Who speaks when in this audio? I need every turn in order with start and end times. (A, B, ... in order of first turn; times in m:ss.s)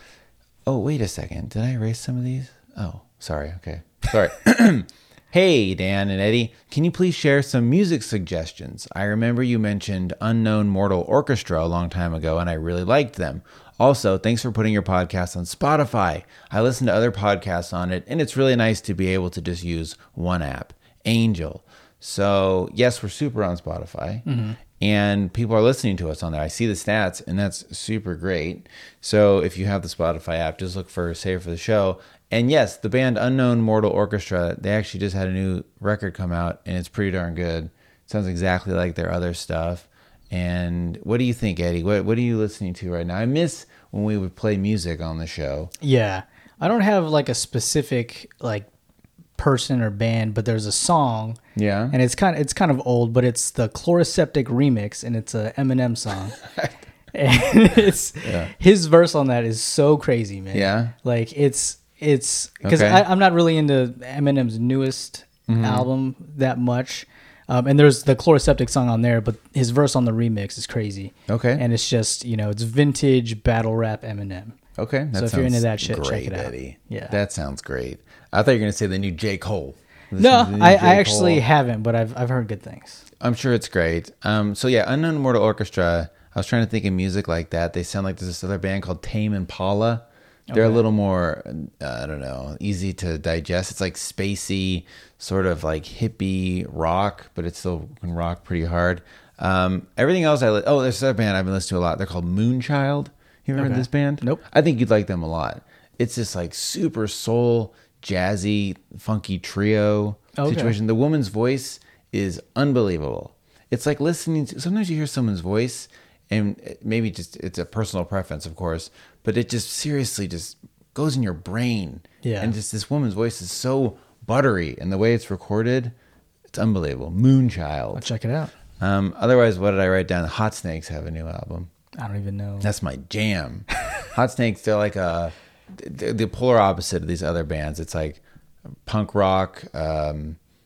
0:00.6-0:24.2 A
0:24.2-0:24.6 B
0:24.8-0:45.7 A
0:45.8-0:48.7 B
0:49.4-0:51.4 B
0:51.5-0:52.0 A
0:51.9-0:56.4 B
0:57.1-1:14.6 B
0:58.2-0:58.5 A
1:00.5-1:00.9 A
1:02.6-1:03.0 A
1:05.5-1:05.9 A
1:11.3-1:11.6 A
1:14.8-1:21.4 A
1:15.1-1:17.1 B
1:20.2-1:23.0 B
1:23.2-2:05.9 A
1:30.5-1:30.8 B
1:43.6-1:44.4 B
1:50.4-1:50.7 B
2:02.2-2:02.6 B
2:06.5-2:08.1 A
2:07.9-2:08.5 B
2:08.8-2:11.7 A
2:12.0-2:12.7 B
2:12.6-2:18.2 A
2:18.8-2:20.4 A